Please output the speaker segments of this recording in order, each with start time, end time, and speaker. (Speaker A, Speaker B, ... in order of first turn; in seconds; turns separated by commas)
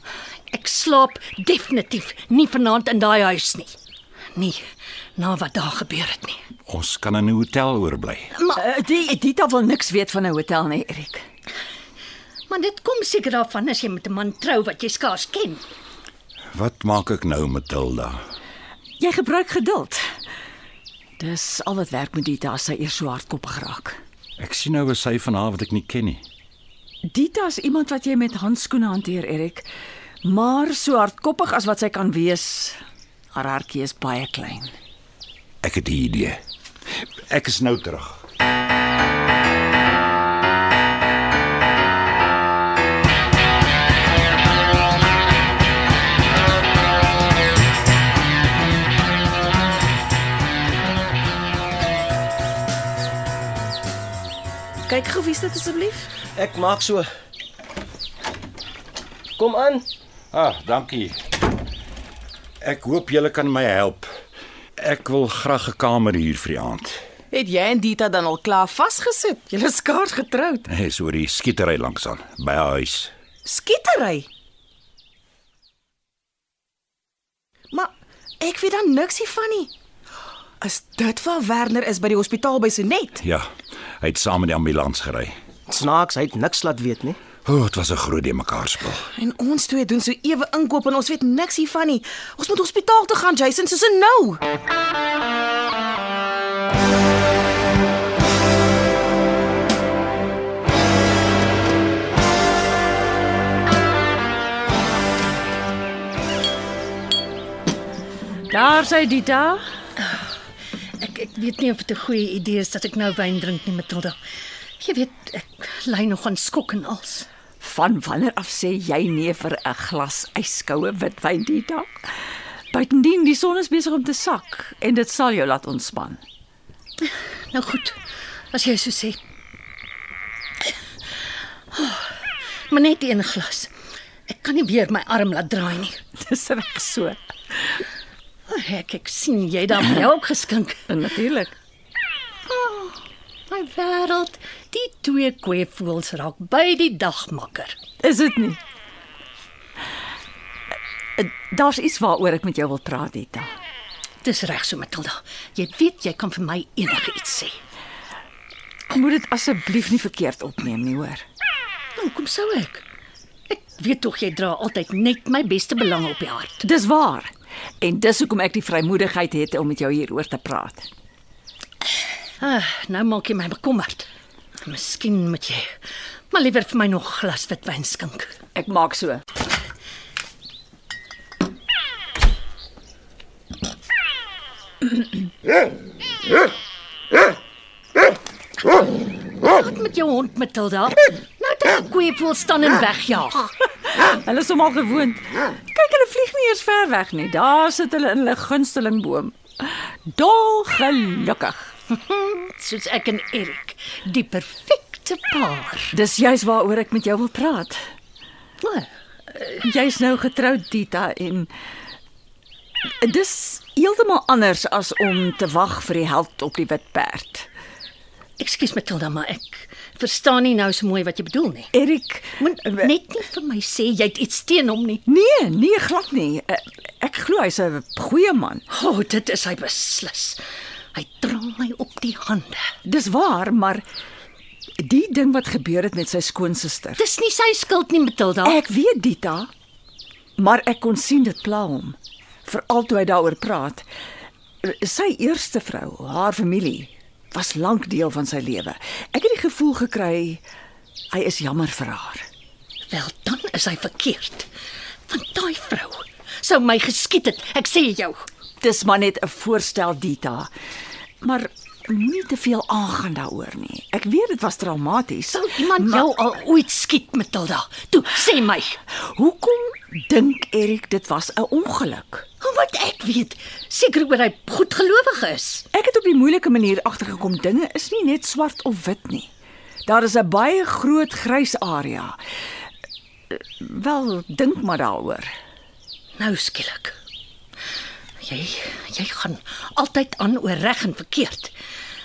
Speaker A: 0.5-3.8, Speaker A: 4.3-4.6, Speaker A: 5.2-6.4, Speaker B: 6.7-8.3, Speaker C: 8.6-11.2, Speaker A: 12.5-15.6, Speaker B: 16.5-18.2, Speaker C: 19.0-20.0, Speaker C: 21.2-24.0, Speaker B: 24.4-26.2, Speaker C: 27.1-29.7, Speaker C: 30.2-32.8, Speaker C: 33.4-34.7, Speaker B: 35.6-36.4, Speaker B: 37.3-38.2, Speaker D: 54.9-56.1, Speaker E: 56.4-57.1, Speaker E: 59.4-59.9, Speaker B: 60.3-61.1, Speaker B: 62.6-64.1, Speaker B: 64.8-67.0, Speaker D: 67.3-70.7, Speaker B: 70.7-73.1, Speaker D: 73.5-74.3, Speaker D: 77.7-79.7, Speaker D: 80.6-83.2, Speaker B: 83.2-83.5, Speaker B: 84.0-85.3, Speaker E: 85.7-87.2, Speaker B: 87.5-89.1, Speaker D: 89.1-94.4, Speaker C: 108.5-109.6, Speaker A: 111.0-114.2, Speaker A: 114.8-117.3, Speaker C: 117.6-122.1, Speaker C: 122.7-126.2, Speaker A: 127.0-128.0, Speaker A: 128.5-129.2, Speaker A: 131.7-133.7, Speaker A: 134.3-136.0, Speaker C: 136.2-137.8, Speaker A: 138.5-140.9, Speaker C: 140.9-141.5, Speaker A: 142.5-143.0, Speaker A: 143.5-147.8, Speaker C: 148.0-148.6, Speaker C: 151.2-153.5, Speaker A: 154.2-157.6, Speaker C: 158.9-161.2, Speaker A: 162.0-162.8, Speaker A: 163.5-166.6, Speaker C: 166.6-170.9, Speaker A: 172.4-174.1, Speaker A: 174.6-175.7, Speaker A: 176.3-178.3, Speaker C: 178.6-179.2, Speaker A: 189.4-193.5, Speaker C: 193.9-201.7, Speaker A: 201.9-205.9, Speaker C: 205.9-207.8, Speaker A: 208.6-208.9, Speaker C: 209.6-211.5, Speaker C: 213.0-217.5, Speaker A: 218.4-221.7, Speaker C: 221.7-222.9, Speaker A: 222.4-225.0, Speaker C: 225.1-228.7, Speaker A: 228.7-230.4, Speaker A: 230.9-232.6, Speaker C: 232.8-233.8, Speaker C: 234.8-237.0, Speaker A: 237.0-238.6, Speaker C: 238.4-239.5, Speaker C: 240.4-243.8, Speaker C: 244.6-250.4, Speaker C: 251.1-252.2, Speaker A: 252.9-254.5, Speaker A: 255.1-258.2, Speaker C: 258.6-260.5, Speaker C: 261.2-266.1, Speaker A: 265.3-268.8, Speaker C: 268.9-272.3, Speaker A: 272.4-275.7, Speaker C: 275.7-279.3, Speaker C: 279.9-282.2, Speaker C: 283.3-285.3, Speaker A: 286.2-286.9, Speaker A: 288.2-291.5